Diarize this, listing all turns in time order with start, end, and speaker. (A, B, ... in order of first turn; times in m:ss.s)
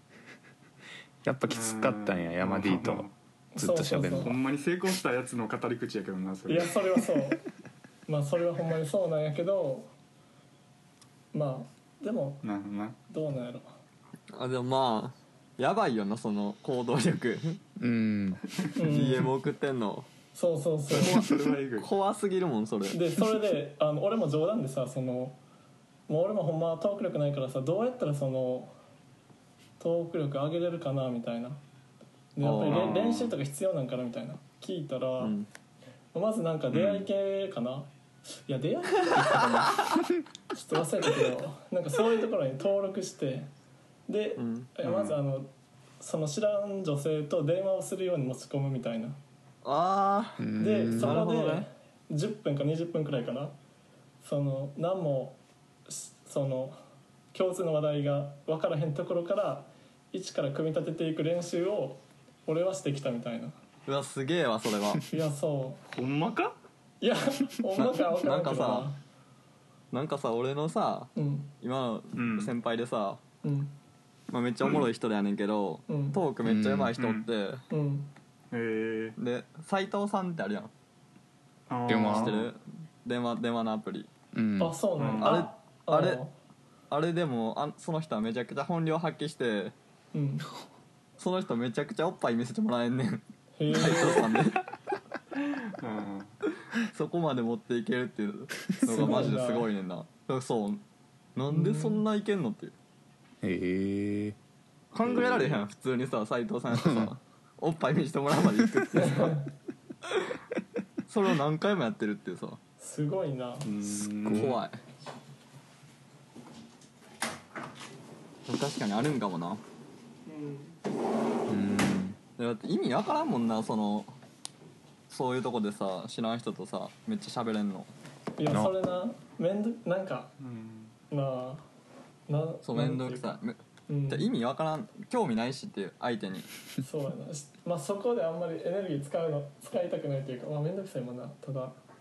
0:01.2-0:04.4 A
0:01.5-0:03.1 B
0:03.6-0:04.4 C
0:04.2-0:06.7 B
0:06.5-0:07.4 C
0:08.1-0:09.9 C
0:11.3-0:12.4 C
0:12.4-0:13.0 B
0:13.1-0:13.7 C
0:14.3-0:17.6 D
0:17.8-0:18.4 A
0:18.7-0:19.3 C
0:18.8-0:20.1 D
0:20.3-0:21.2 C
0:20.9-0:21.9 B
0:20.9-0:23.0 D
0:22.9-0:25.4 C
0:26.1-0:28.7 C
0:29.8-0:31.6 C
0:32.4-0:35.3 C
0:32.4-0:32.9 D
0:32.7-0:33.4 B
0:35.2-0:35.5 D
0:36.1-0:37.9 C
0:36.7-0:37.0 B
0:38.4-0:39.8 C
0:40.5-0:43.5 C
0:44.1-0:49.2 C
0:44.4-0:44.7 D
0:44.8-0:45.1 B
0:49.6-0:51.6 D
0:50.4-0:51.2 A
0:50.6-0:53.5 C
0:54.2-0:56.8 C
0:57.3-1:03.5 C
1:03.9-1:05.1 D
1:05.1-1:05.8 C
1:05.9-1:06.6 B
1:07.0-1:09.0 C
1:07.7-1:08.9 D
1:09.9-1:13.2 D
1:11.2-1:11.5 C
1:12.1-1:12.5 B
1:13.4-1:13.8 C
1:14.3-1:17.6 D
1:15.9-1:16.2 C
1:16.4-1:16.9 A
1:17.0-1:17.3 B
1:17.7-1:18.1 C
1:18.5-1:19.2 B
1:19.2-1:20.7 D
1:21.7-1:22.5 B
1:21.9-1:22.3 A
1:22.0-1:24.1 D
1:24.3-1:24.8 A
1:24.6-1:26.3 C
1:25.0-1:25.5 B
1:25.2-1:26.2 D
1:26.9-1:29.7 D
1:30.1-1:30.5 C
1:31.2-1:34.6 D
1:33.6-1:34.4 C
1:35.8-1:36.3 B
1:36.8-1:40.8 D
1:38.8-1:39.7 C
1:41.4-1:42.7 D
1:41.5-1:42.0 C
1:43.4-1:44.4 A
1:44.9-1:49.4 D
1:45.0-1:45.5 A
1:46.7-1:47.1 A
1:49.0-1:49.4 C
1:51.1-1:52.6 D
1:52.8-1:53.7 C
1:53.6-1:54.6 B
1:53.8-1:54.6 A
1:54.3-1:54.8 D
1:58.5-1:59.6 D
2:00.2-2:00.8 C
2:01.5-2:02.2 A
2:02.4-2:04.1 D
2:05.1-2:07.9 D
2:08.4-2:10.3 C
2:10.4-2:10.9 B
2:11.1-2:11.6 C
2:12.3-2:14.3 C
2:12.6-2:13.6 D
2:14.1-2:16.5 D
2:16.8-2:21.8 C